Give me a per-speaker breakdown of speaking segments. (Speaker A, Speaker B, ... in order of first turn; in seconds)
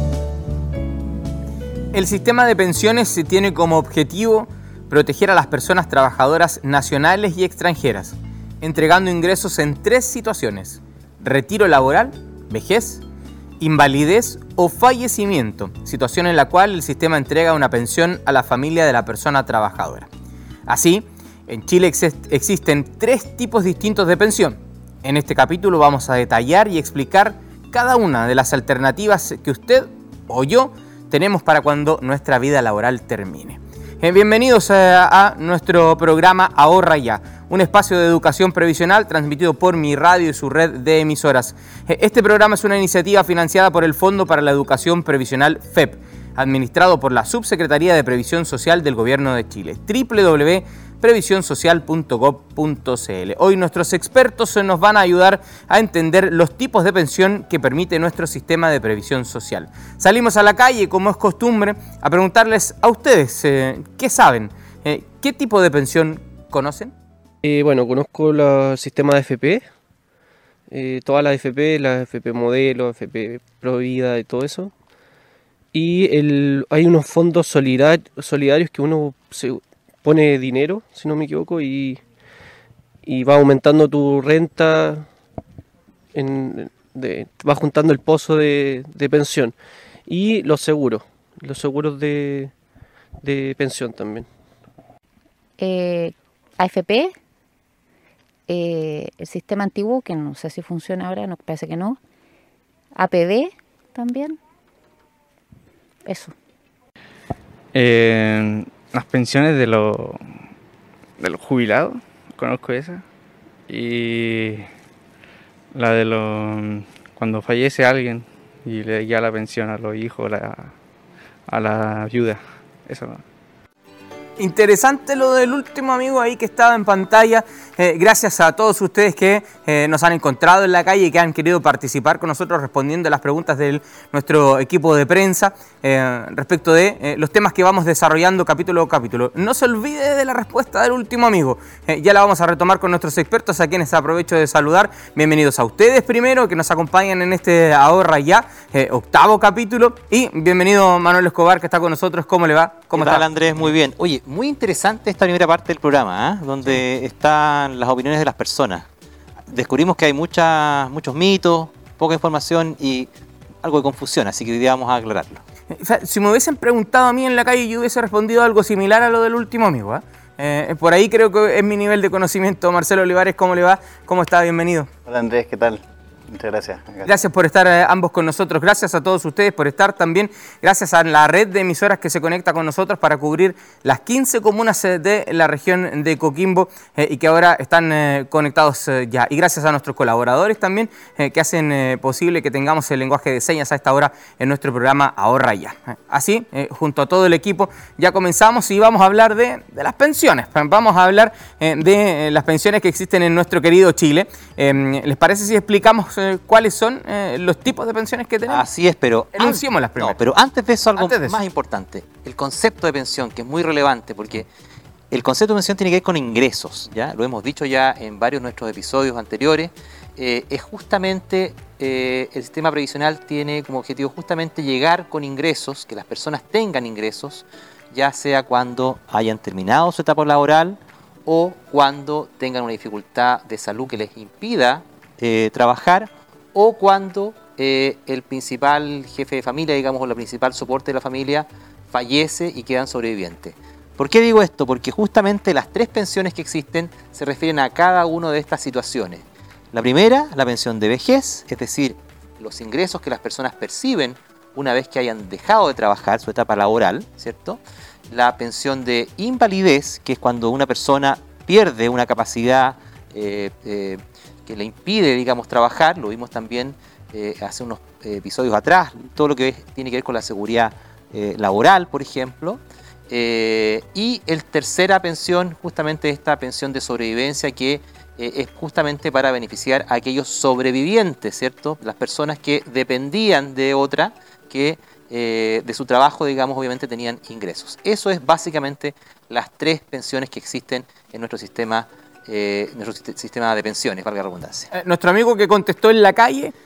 Speaker A: 1.9-13.0, 13.6-20.1, 20.7-66.9, 124.4-153.2, 165.7-174.9, 177.0-208.6, 209.3-210.1, 211.0-211.4, 294.7-296.5
Speaker B: 67.4-69.7, 70.7-74.7, 75.7-82.0, 83.0-85.1, 86.1-92.5, 93.2-94.3
Speaker C: 95.6-97.2, 98.5-102.0, 103.0-104.4, 106.0-106.3
Speaker D: 107.7-110.3, 111.2-113.0, 113.7-114.7, 115.7-120.7, 121.5-123.2
Speaker E: 152.9-158.8, 159.5-163.1, 163.6-165.4, 208.5-214.4, 215.1-294.7
Speaker F: 175.1-177.1